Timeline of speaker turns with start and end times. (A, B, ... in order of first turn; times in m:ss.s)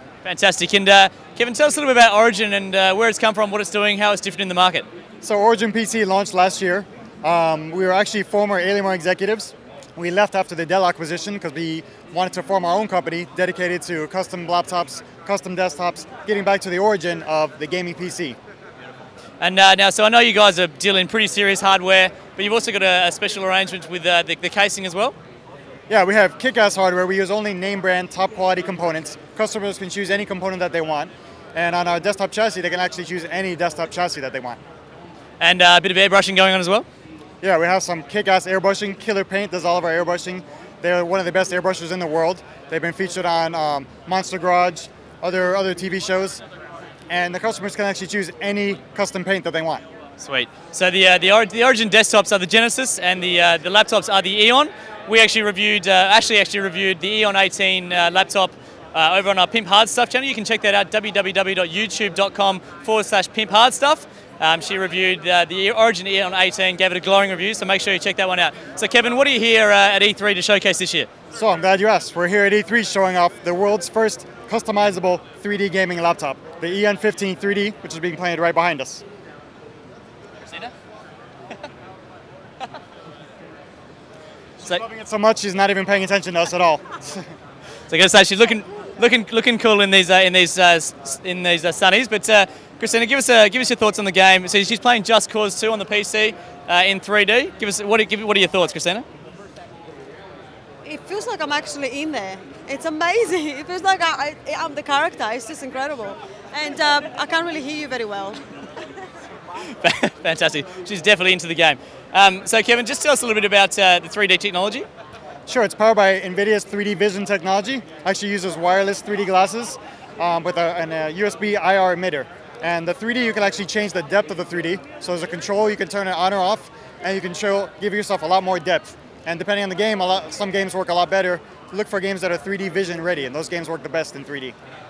0:00.2-0:04.9 A
0:05.2-0:18.4 B
0:19.4-0:25.1 A
0:25.9-0:34.6 B
0:35.4-0:36.9 A
0:37.4-0:46.4 B
0:47.1-0:49.8 B
0:50.2-1:11.1 A
1:11.3-1:19.0 B
1:24.6-1:27.3 B
1:27.9-1:39.0 A
1:40.8-1:48.4 C
1:49.7-1:54.9 A
1:55.5-2:14.6 B